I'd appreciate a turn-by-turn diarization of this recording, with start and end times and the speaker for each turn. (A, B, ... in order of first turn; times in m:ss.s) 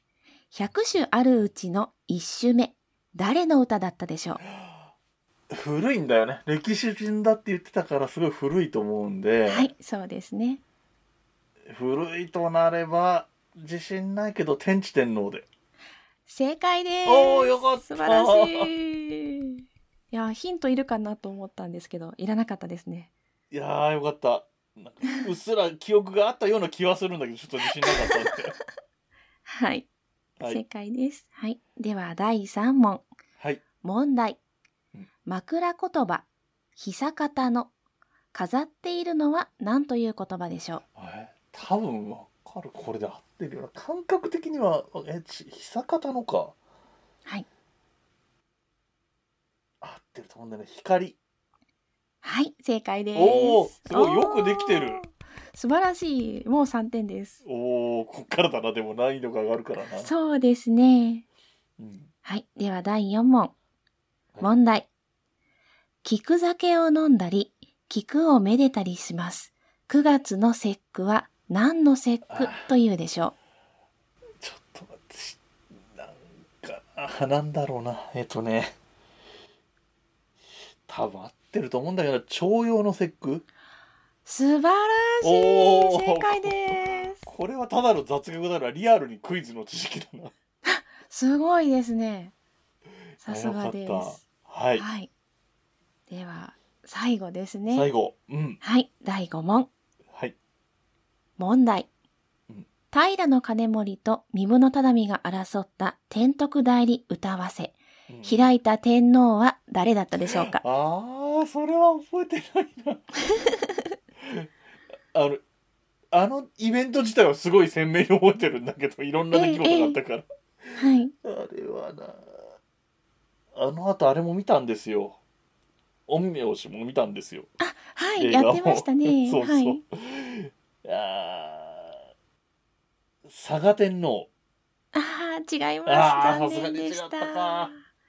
0:00.5-0:04.4 A
0:05.5-0:09.7 B
0:09.5-0:10.6 A
0:11.7-0:15.5 B
0:16.2-0:19.4 A
0:17.0-0:18.7 B
0:20.1-0:23.1 A
0:23.5-0:28.5 B
0:29.5-0:29.9 A
0:30.4-0:33.1 A
0:33.8-0:34.4 A
0:35.2-0:37.7 A
0:38.3-0:40.8 A
0:41.0-0:46.6 B
0:49.8-0:51.2 B
0:52.2-0:57.4 A
0:53.1-0:55.0 B
0:57.4-1:00.1 B
0:59.8-1:01.2 A
1:01.8-1:02.1 B
1:02.2-1:03.5 A
1:04.4-1:04.9 A
1:06.0-1:13.4 A
1:12.3-1:12.7 B
1:14.4-1:15.4 B
1:15.9-1:18.8 B
1:20.9-1:23.5 B
1:24.2-1:27.3 A
1:25.2-1:30.3 B
1:30.6-1:32.3 A
1:33.2-1:34.9 B
1:33.2-1:34.2 A
1:34.8-1:35.1 A
1:36.1-1:37.9 A
1:37.7-1:38.6 B
1:38.6-1:39.7 A
1:41.4-1:41.9 A
1:42.9-1:50.6 A
1:48.1-1:48.5 B
1:50.2-1:53.1 B
1:53.3-1:53.6 A
1:54.2-1:54.5 B
1:55.1-1:55.4 B
1:56.1-2:02.4 B
1:59.3-2:00.0 A
2:00.8-2:01.1 A
2:03.5-2:05.2 B
2:06.1-2:07.5 B
2:07.6-2:09.8 A
2:08.2-2:12.0 B
2:13.2-2:14.3 B
2:14.9-2:17.8 A
2:15.9-2:17.7 B